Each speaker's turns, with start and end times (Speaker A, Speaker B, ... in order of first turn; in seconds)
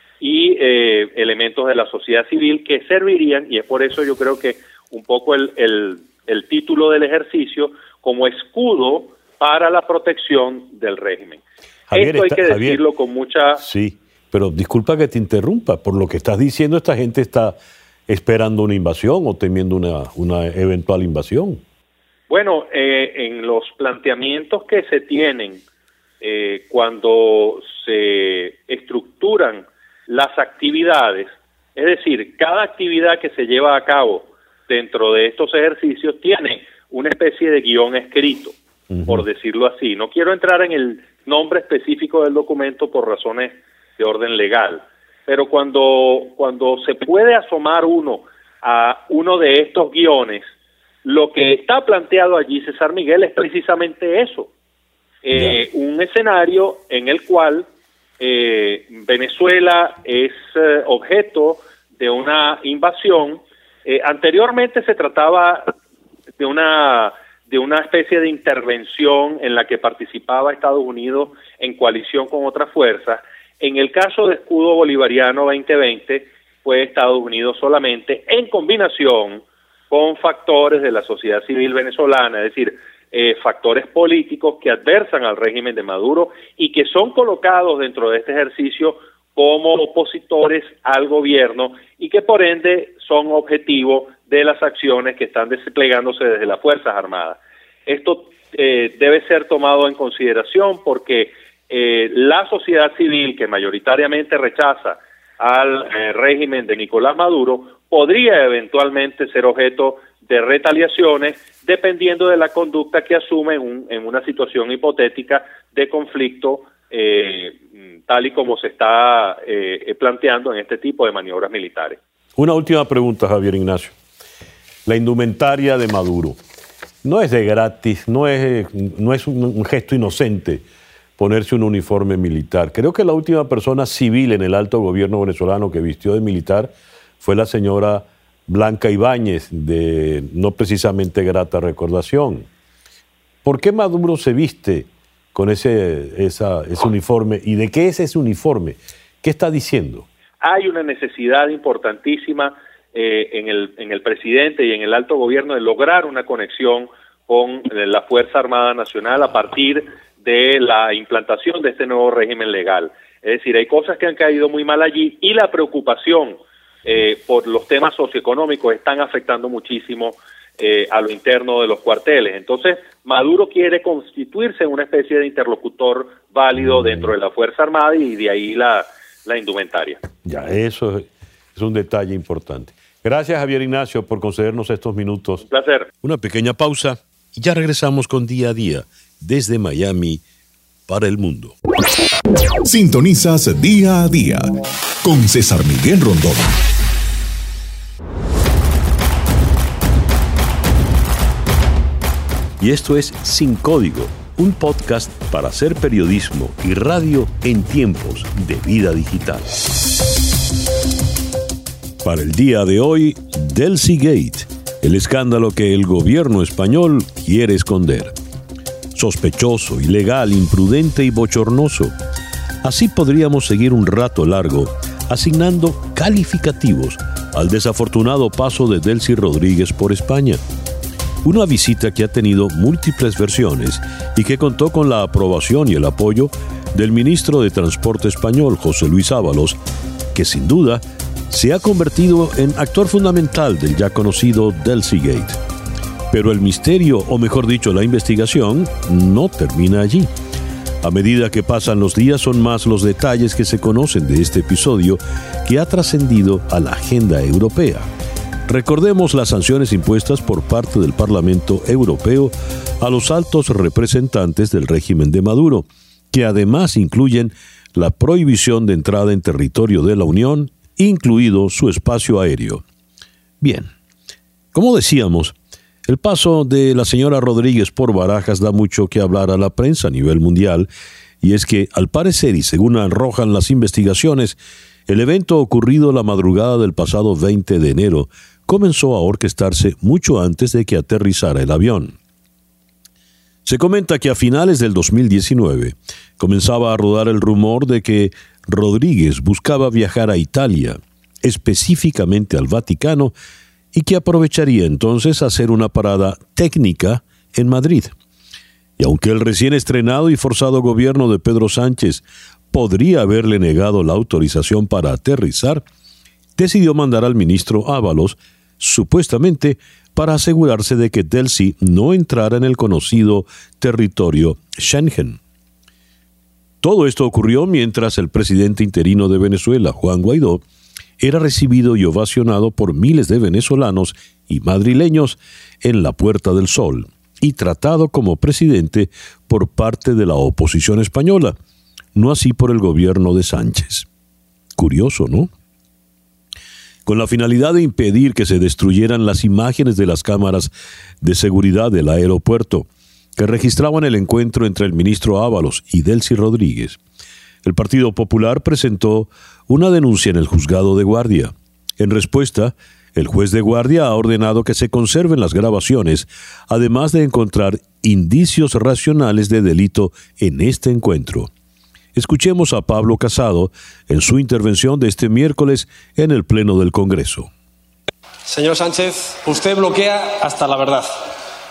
Speaker A: 0.2-11.4, 11.9-13.6, 22.3-25.6, 26.2-38.5, 39.1-50.5, 51.0-54.5, 55.2-57.7, 58.2-65.7, 66.4-122.0, 150.4-180.0, 185.4-185.9
Speaker B: 11.9-12.8, 13.6-17.6, 18.1-21.6, 38.9-39.2, 55.3-55.6, 122.4-123.9, 124.8-126.4, 127.0-130.6, 131.2-142.5, 143.4-150.1, 176.6-177.1, 180.2-185.4, 186.0-190.2, 190.9-191.6, 202.6-209.5, 212.0-218.1, 218.9-221.9, 222.6-230.4, 231.2-239.6, 240.1-245.4, 246.1-250.1, 250.8-257.9, 258.5-272.6, 273.4-273.7, 274.5-280.7, 281.2-291.9, 293.4-303.1, 303.7-307.9, 308.8-315.6, 316.4-325.2, 326.6-330.4, 331.0-341.3, 341.9-343.9, 344.6-345.3, 346.9-350.5, 351.0-356.8, 357.4-371.3, 371.9-377.3
Speaker C: 192.6-194.5, 195.0-196.6
Speaker D: 378.2-381.1